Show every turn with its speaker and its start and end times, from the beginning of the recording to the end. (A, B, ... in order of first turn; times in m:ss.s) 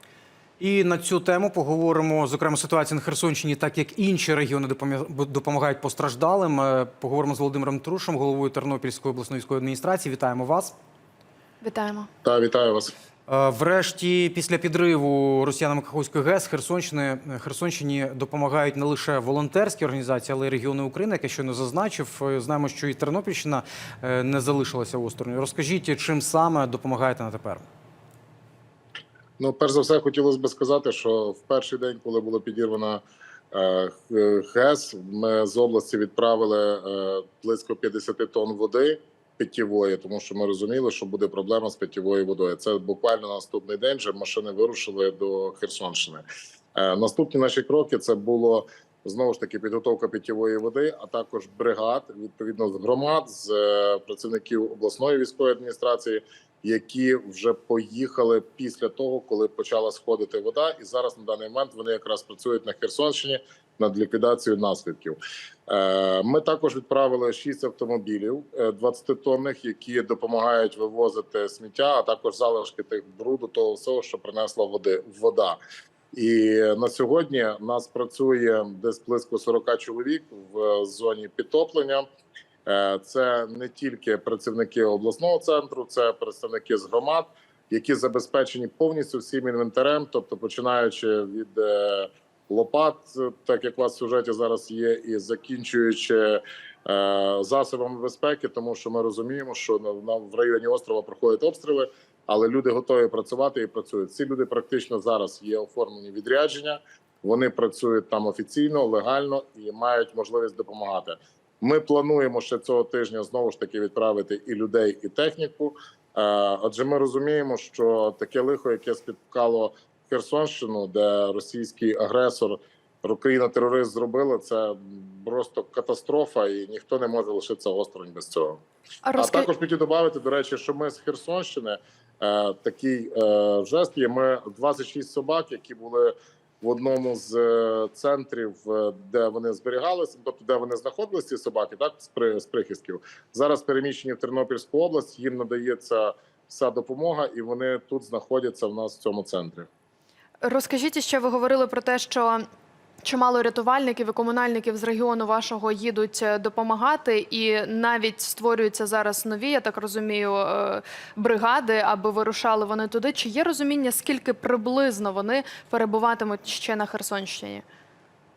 0:00.6-0:10.8 A
0:11.6-0:12.1 B
0:12.2-0:12.9 C
0:13.3-0:27.7 A
0:29.4-1:15.6 C
1:16.1-1:22.1 C
1:22.7-2:08.6 C
2:09.0-2:09.5 B
2:09.2-2:29.7 C
2:30.4-2:32.4 B
2:33.0-2:47.6 B